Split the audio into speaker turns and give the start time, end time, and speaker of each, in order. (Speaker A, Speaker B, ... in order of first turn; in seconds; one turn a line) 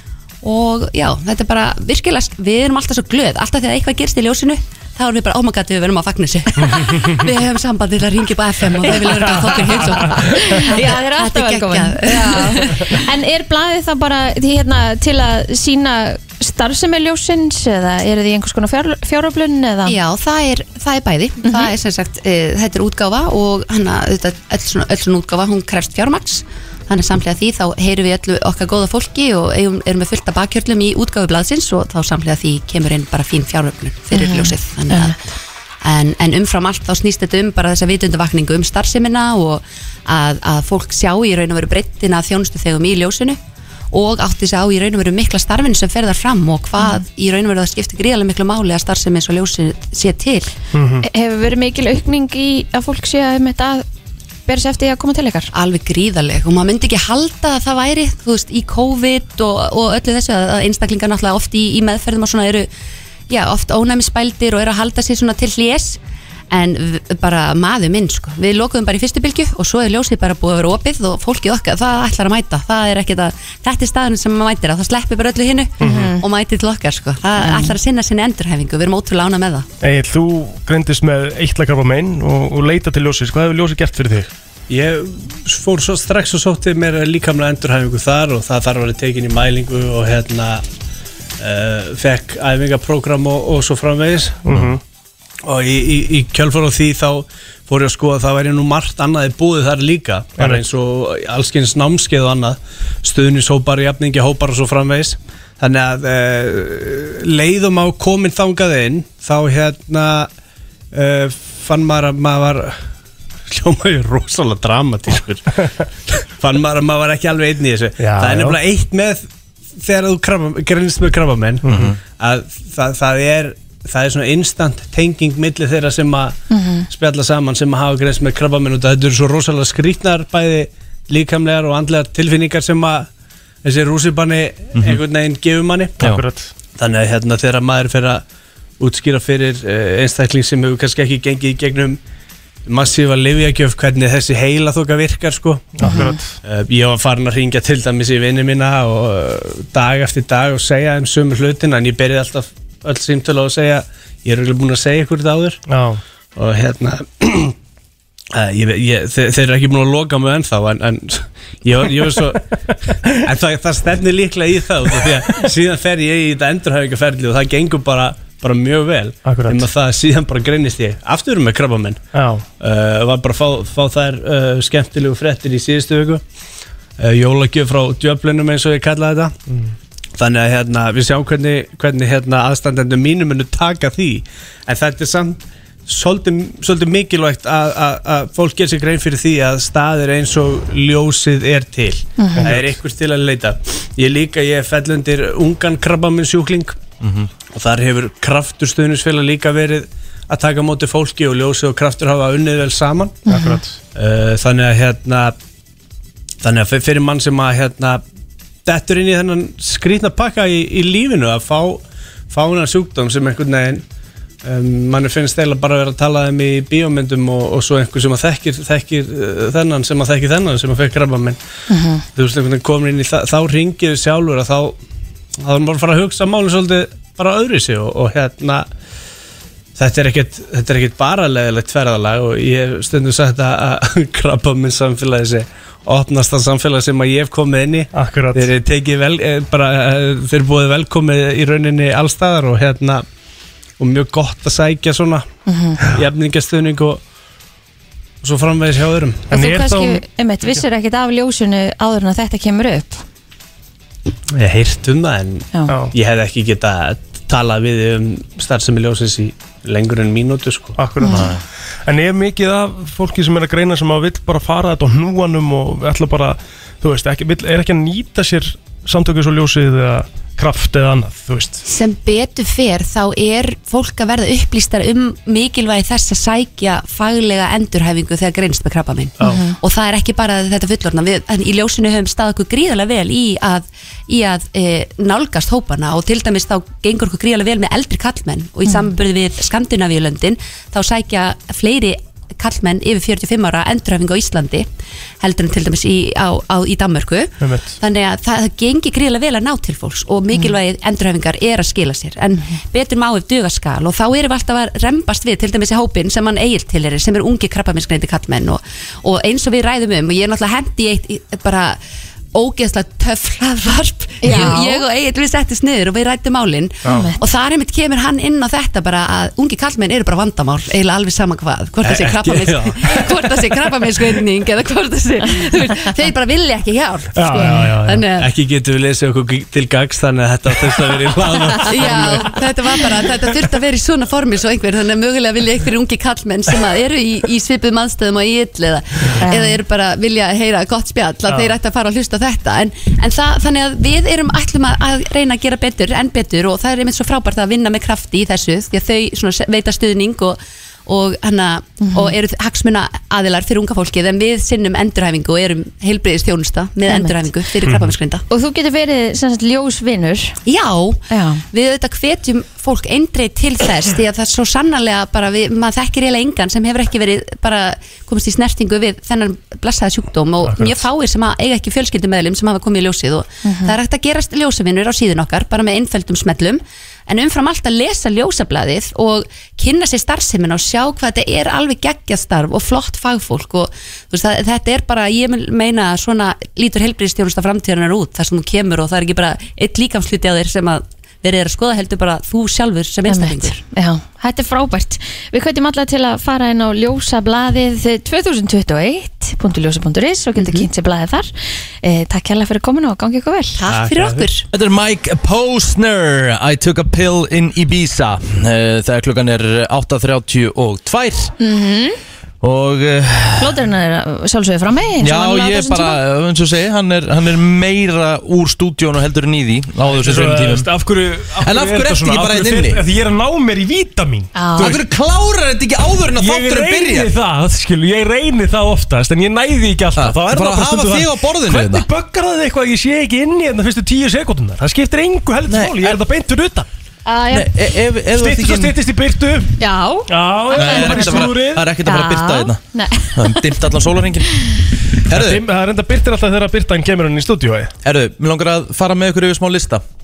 Speaker A: 0.4-13.0
Speaker B: 9.6-20.0
Speaker A: 19.9-35.1
Speaker B: 34.1-35.1
Speaker A: 35.8-43.4
Speaker A: 43.9-50.5
Speaker C: 50.7-51.0
Speaker B: 51.0-53.8
Speaker B: 54.5-55.5
Speaker A: 55.5-62.7
Speaker A: 63.3-66.0
Speaker A: 66.5-79.7
Speaker C: 75.8-76.1
Speaker B: 75.8-76.2
Speaker B: 77.4-77.7
Speaker C: 79.8-84.3
Speaker D: 84.7-90.6
Speaker D: 91.4-94.4
Speaker C: 94.5-94.8
Speaker D: 95.4-110.3
Speaker D: 110.9-112.8
Speaker D: 113.5-119.2
Speaker C: 118.0-118.6
Speaker D: 119.8-126.4
Speaker C: 121.7-121.9
Speaker E: 121.7-122.0
Speaker B: 126.5-126.9
Speaker D: 126.9-133.1
Speaker D: 133.6-136.0
Speaker E: 134.7-135.0
Speaker C: 136.0-136.5
Speaker D: 136.7-138.2
Speaker D: 138.8-142.0
Speaker D: 142.7-145.9
Speaker C: 145.8-146.3
Speaker B: 145.8-146.2
Speaker D: 146.4-155.6
Speaker C: 155.7-156.0
Speaker D: 156.3-157.5
Speaker D: 158.3-162.5
Speaker D: 163.1-172.1
Speaker C: 169.2-169.6
Speaker C: 172.1-172.4
Speaker D: 172.6-176.2
Speaker D: 177.0-179.4
Speaker D: 180.2-196.8
Speaker B: 192.2-192.5
Speaker C: 192.3-192.7
Speaker E: 197.0-197.3
Speaker D: 197.5-203.2
Speaker B: 203.3-203.6
Speaker C: 203.3-203.8
Speaker D: 203.9-205.3
Speaker D: 206.4-208.0
Speaker D: 208.6-213.8
Speaker D: 214.4-221.4
Speaker B: 221.7-222.0
Speaker D: 222.1-224.8
Speaker D: 225.4-228.6
Speaker D: 229.8-243.0
Speaker C: 237.9-238.5
Speaker D: 243.8-245.2
Speaker B: 245.5-245.8
Speaker D: 245.9-247.0
Speaker D: 248.2-249.2
Speaker C: 249.3-250.0
Speaker B: 249.3-253.0
Speaker D: 254.4-260.8
Speaker C: 255.7-255.9
Speaker C: 260.8-261.3
Speaker B: 261.0-261.2
Speaker E: 261.0-261.4
Speaker C: 261.9-271.6
Speaker A: 271.6-294.7
Speaker B: 279.2-279.6
Speaker A: 295.2-311.8
Speaker C: 297.4-297.7
Speaker A: 312.3-328.3
Speaker B: 314.2-314.8
Speaker B: 316.8-317.2
Speaker D: 321.8-323.2
Speaker C: 327.1-328.0
Speaker B: 327.3-327.6
Speaker D: 328.2-332.4
Speaker A: 331.6-358.2
Speaker B: 339.2-339.6
Speaker B: 351.8-352.1
Speaker B: 356.9-357.2
Speaker B: 358.3-360.4
Speaker A: 360.4-393.6
Speaker B: 361.1-361.4
Speaker B: 373.4-373.7
Speaker B: 393.1-401.3
Speaker A: 400.4-400.6
Speaker B: 401.8-403.6
Speaker A: 403.6-404.4
Speaker D: 403.7-404.2
Speaker E: 404.5-411.3
Speaker B: 411.4-412.0
Speaker E: 412.4-413.6
Speaker B: 413.4-416.0
Speaker E: 415.0-420.7
Speaker C: 419.9-424.8
Speaker E: 421.4-422.8
Speaker B: 424.3-424.8
Speaker E: 424.6-427.1
Speaker C: 426.1-436.7
Speaker E: 429.9-431.9
Speaker E: 435.5-436.0
Speaker B: 437.1-437.5
Speaker E: 437.3-438.8
Speaker C: 438.1-441.7
Speaker B: 439.6-441.3
Speaker E: 440.5-442.6
Speaker B: 441.8-443.6
Speaker E: 443.1-444.4
Speaker E: 445.0-445.4
Speaker C: 445.1-447.7
Speaker E: 447.8-449.8